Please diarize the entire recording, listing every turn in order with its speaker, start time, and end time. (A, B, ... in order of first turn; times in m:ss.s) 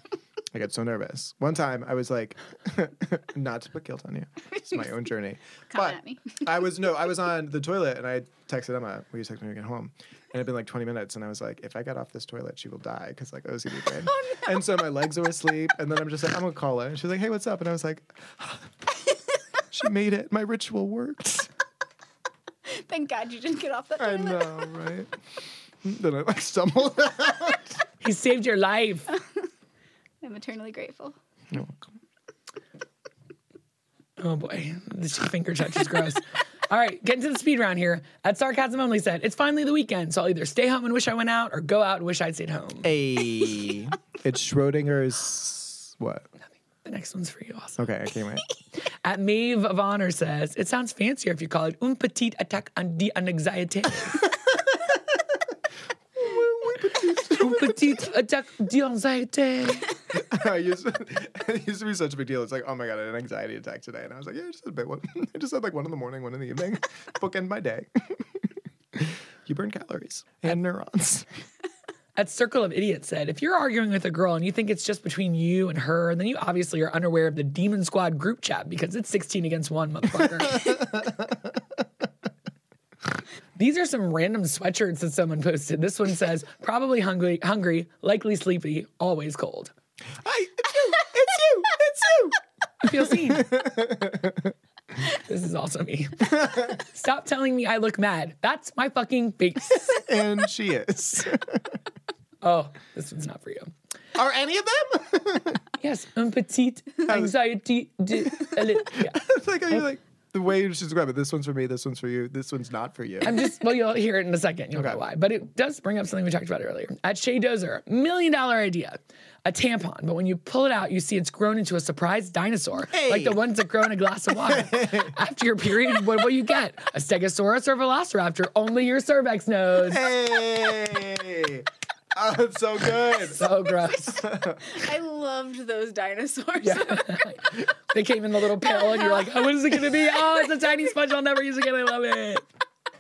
0:00.5-0:18.8 A
0:05.7-0:06.5 B
0:14.1-0:14.4 B
0:19.7-0:21.5 A
0:22.7-0:24.7 B
0:24.0-0:25.1 A
0:25.8-0:27.8 A
0:28.0-0:29.1 C
0:30.2-0:31.2 B
0:31.5-0:31.9 A
0:34.2-0:42.9 C
0:42.8-0:46.3 A
0:46.8-0:47.9 C
0:47.8-0:48.4 A
0:49.0-0:54.2 C
0:56.2-0:58.0 A
0:57.2-0:59.9 C
1:00.1-1:11.3 A
1:12.2-1:20.9 C
1:20.5-1:21.5 A
1:23.6-1:29.7 C
1:30.2-1:34.5 A
1:32.8-1:33.6 C
1:35.0-1:40.0 C
1:39.9-1:41.8 A
1:42.4-1:43.7 C
1:44.2-1:45.6 A
1:45.8-1:49.9 C
1:47.1-1:47.4 A
1:48.2-1:53.5 A
1:53.2-2:10.0 C
1:54.8-1:55.0 A
2:02.9-2:03.4 A
2:04.5-2:05.2 A
2:09.8-2:13.5 A
2:13.2-2:14.2 C
2:14.0-2:14.7 A
2:14.6-2:17.2 B
2:16.6-2:22.4 C
2:18.7-2:19.3 B